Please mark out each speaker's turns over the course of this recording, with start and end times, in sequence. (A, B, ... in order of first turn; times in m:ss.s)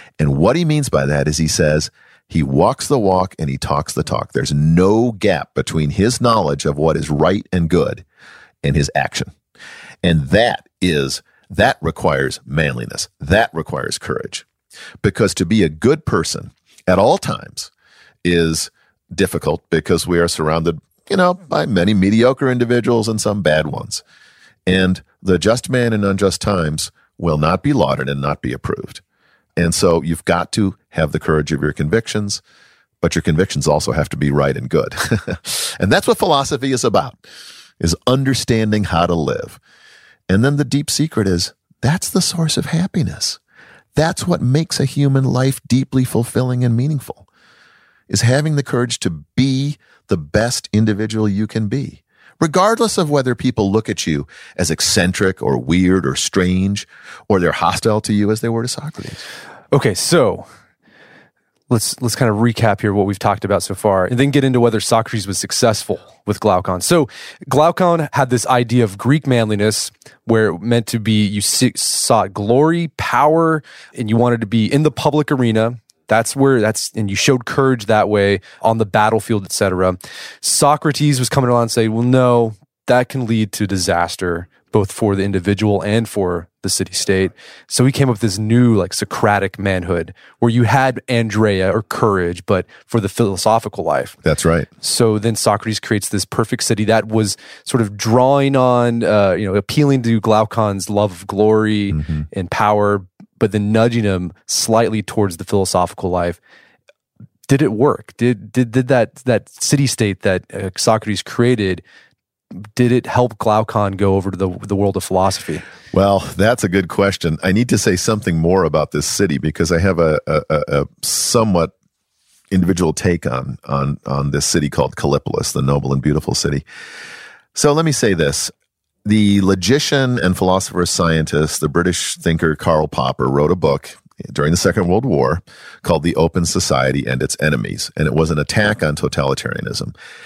0:00.2-0:08.0 A
0:08.6-0:09.3 A
0:10.0-0:14.4 A
0:15.0-0:17.7 A
0:18.2-0:24.0 A
0:24.6-0:29.0 A
0:29.6-0:32.4 A
0:33.0-0:37.2 A
0:37.8-0:39.6 A
0:40.3-0:43.4 A
0:44.0-0:47.2 A
0:48.1-0:59.2 A
0:59.7-1:00.5 B
1:01.7-1:34.2 B
1:34.2-1:34.7 A
1:34.8-1:46.4 B
1:41.9-1:42.2 A
1:47.5-1:51.8 B
1:52.8-1:55.6 B
1:55.9-2:01.7 A
2:02.5-2:06.6 A
2:07.5-2:08.5 A
2:09.0-2:19.9 A